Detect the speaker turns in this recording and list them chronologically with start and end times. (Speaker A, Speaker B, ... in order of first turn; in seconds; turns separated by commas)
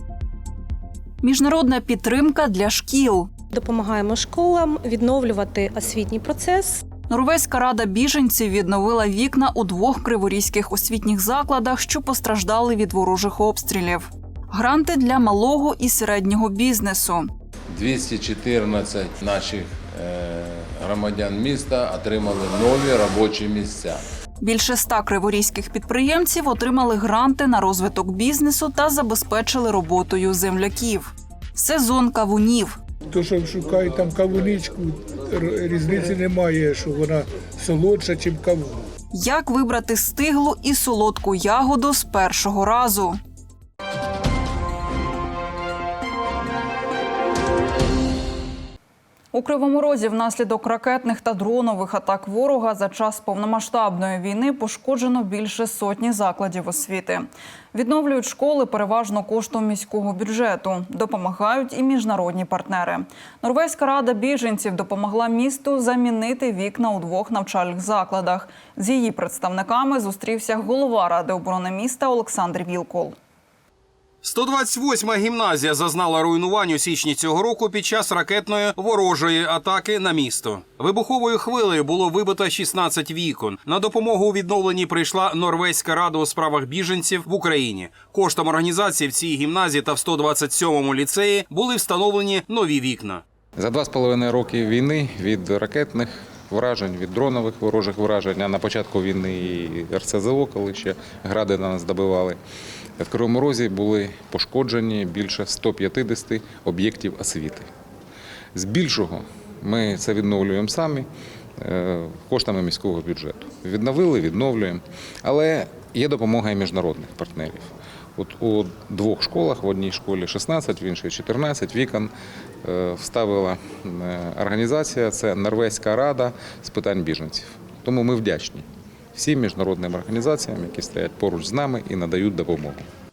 Speaker A: 1.2-3.3, Speaker B: 3.5-6.9, Speaker A: 7.1-17.3, Speaker C: 17.7-24.0, Speaker A: 24.4-32.8, Speaker D: 33.1-38.9, Speaker A: 39.1-43.2, Speaker A: 49.3-73.1, Speaker E: 74.2-93.2, Speaker F: 93.6-102.4, Speaker F: 103.0-107.7, Speaker F: 108.5-122.1, Speaker F: 122.6-132.8